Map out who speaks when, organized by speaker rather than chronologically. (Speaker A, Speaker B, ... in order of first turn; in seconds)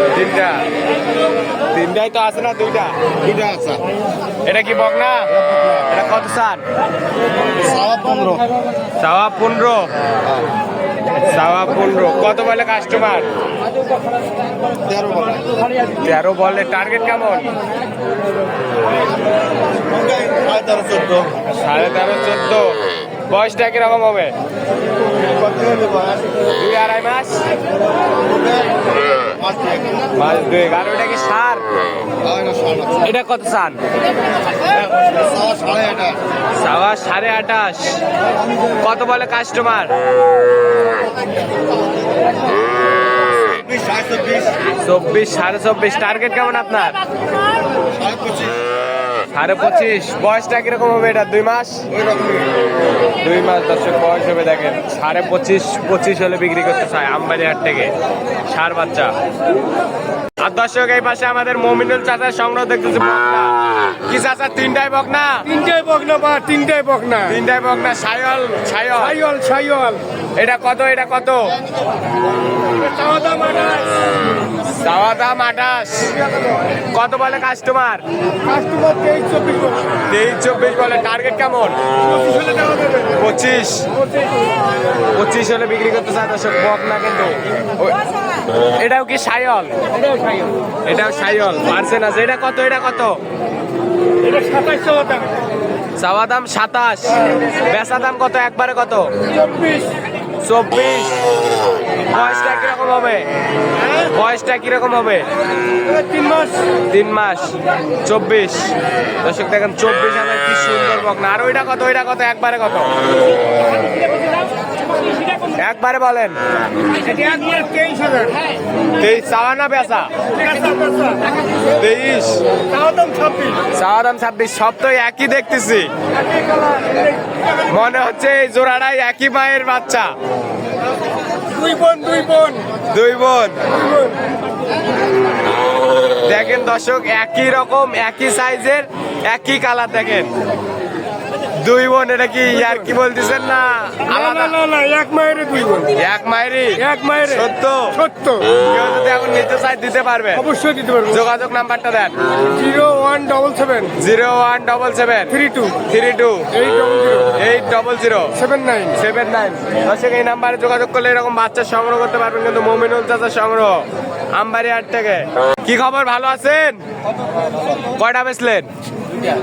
Speaker A: 0.1-0.6, 1.7-2.9, 4.5-6.6, 9.0-9.9, 11.2-13.3, 16.0-17.5, 21.5-22.8, 23.3-24.3, 26.5-27.4, 30.1-31.6, 33.0-33.8, 36.6-38.0, 38.7-39.9, 44.8-47.0, 49.3-51.9, 53.2-57.9, 58.5-59.1, 60.4-63.5, 64.1-65.5, 67.2-69.2, 70.4-71.5, 74.7-76.1, 76.9-78.0, 80.1-81.8, 83.1-83.9, 85.2-88.0, 88.8-89.8, 90.8-93.2, 96.0-99.1, 100.4-101.2, 102.1-103.3, 103.9-105.3, 106.8-108.7, 109.2-113.0, 115.5-116.4, 119.0-120.1, 121.7-122.4, 123.7-125.9, 127.6-130.1, 132.9-133.6, 136.2-140.3, 141.6-144.6, 145.9-148.0, 148.5-150.5, 151.1-152.2, 153.9-156.5, 157.3-158.4, 158.9-163.8, 164.3-166.8, 167.8-168.7
Speaker B: 3.2-3.8, 7.6-8.4, 14.8-15.6, 19.9-21.3, 25.4-26.2, 28.3-28.7, 29.2-30.0, 32.2-33.0, 34.9-36.2, 43.5-44.6, 48.0-48.7, 52.0-52.5
Speaker C: 65.5-67.3, 69.0-70.0, 72.8-73.9, 78.5-79.8, 82.1-83.0, 94.3-95.3, 99.4-99.9, 106.0-106.6, 117.0-118.5, 120.4-121.2, 122.7-123.6, 131.5-132.7, 133.9-134.2, 144.1-145.9, 146.8-147.4, 147.9-148.4, 150.4-151.2, 152.5-153.9, 155.3-155.8, 156.5-157.3, 158.4-158.9